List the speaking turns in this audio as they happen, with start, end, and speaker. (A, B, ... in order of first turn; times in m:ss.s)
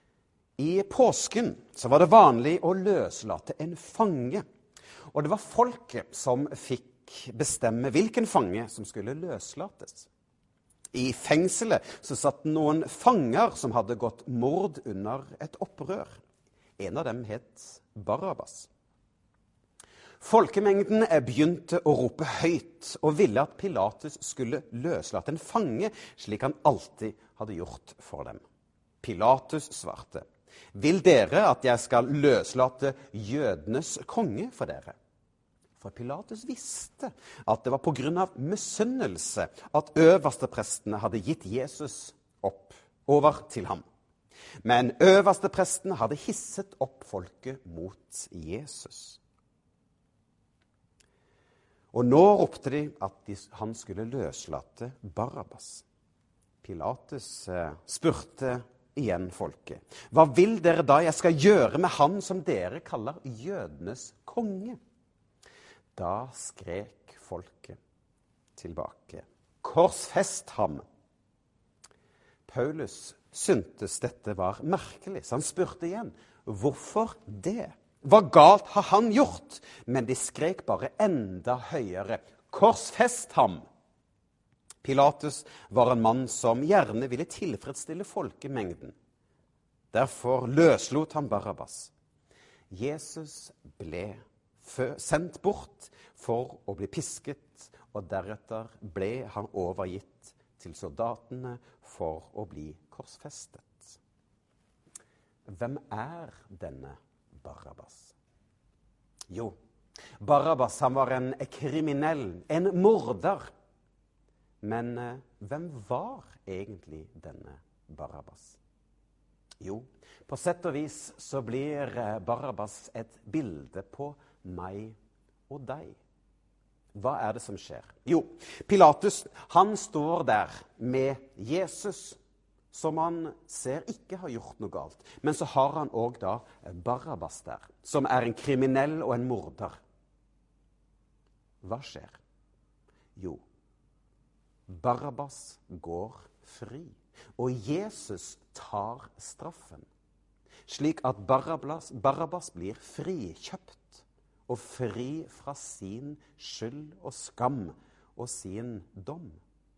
0:00.6-0:04.4 A
0:05.1-0:10.1 A
0:10.9-0:16.2 A
0:16.8-0:18.7 A
0:20.2-0:28.4 A
0:29.0-0:35.0 A
0:35.8-0:43.8 A
0:44.6-0:49.2 A
0:51.9-0:55.9 A
0:56.6-1:04.8 A
1:06.0-1:07.8 A
1:08.6-1:10.8 A
1:12.5-1:23.6 A
1:24.8-1:29.0 A
1:29.9-1:31.9 A
1:32.7-1:44.0 A
1:45.5-1:48.2 A
1:49.3-1:49.6 A
1:50.2-1:53.5 A
1:54.6-1:58.6 A
1:59.6-2:05.0 A
2:05.5-2:06.0 A
2:07.0-2:12.2 A
2:12.7-2:19.8 A
2:21.6-2:22.2 A
2:23.2-2:23.4 A
2:24.7-2:29.9 A
2:30.7-2:39.4 A